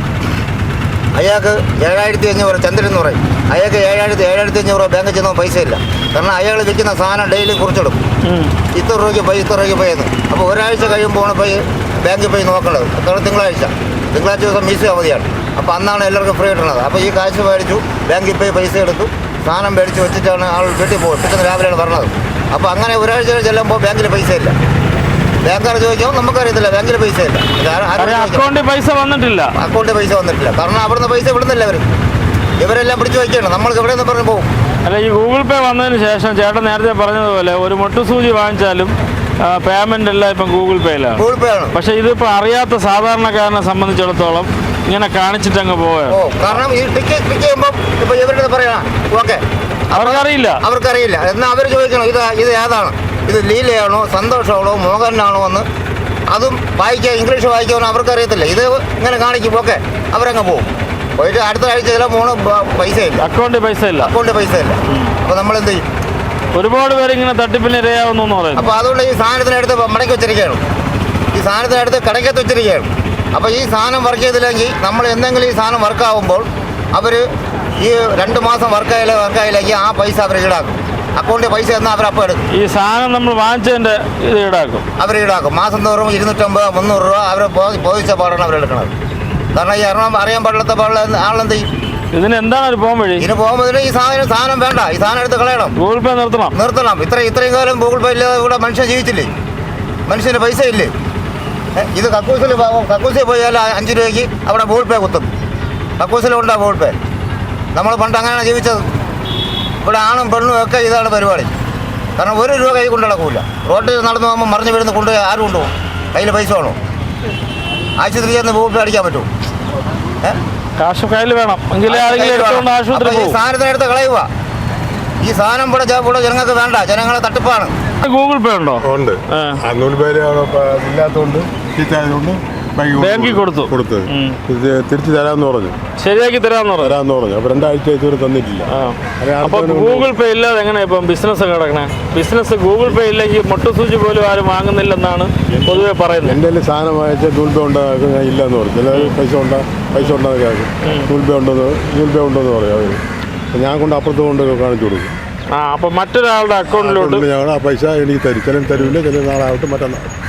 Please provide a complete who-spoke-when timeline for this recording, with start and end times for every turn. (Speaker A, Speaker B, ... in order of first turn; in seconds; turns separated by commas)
Speaker A: 1.1-8.0, Speaker B: 8.2-8.5, Speaker A: 8.7-24.6, Speaker A: 25.4-28.5, Speaker B: 28.0-29.6, Speaker A: 29.6-31.9, Speaker A: 32.6-34.5, Speaker B: 34.8-41.2, Speaker A: 41.2-41.7, Speaker B: 41.7-46.2, Speaker A: 46.1-55.7, Speaker B: 49.9-50.6, Speaker A: 56.3-63.3, Speaker B: 63.2-64.1, Speaker A: 64.0-65.8, Speaker B: 64.9-65.1, Speaker B: 66.5-68.7, Speaker A: 68.5-70.6, Speaker A: 71.3-77.2, Speaker A: 77.8-82.4, Speaker B: 82.5-84.8, Speaker A: 85.0-88.9, Speaker A: 89.5-91.7, Speaker B: 92.1-93.2, Speaker A: 93.2-95.7, Speaker B: 95.8-96.5, Speaker A: 96.5-99.3, Speaker A: 100.1-100.9, Speaker A: 101.8-105.3, Speaker A: 106.0-107.0, Speaker A: 107.7-108.8, Speaker A: 109.8-111.5, Speaker A: 112.2-116.8, Speaker A: 118.0-119.3, Speaker B: 120.8-123.4, Speaker A: 121.9-124.3, Speaker A: 125.2-127.7, Speaker B: 128.0-129.6, Speaker C: 128.8-135.8, Speaker B: 132.9-134.4, Speaker B: 136.0-137.0, Speaker C: 136.8-138.7, Speaker B: 138.7-146.4, Speaker C: 139.2-140.1, Speaker C: 146.3-153.0, Speaker B: 148.9-149.2, Speaker B: 150.8-151.1, Speaker C: 153.5-155.2, Speaker B: 155.5-157.2, Speaker C: 156.8-160.1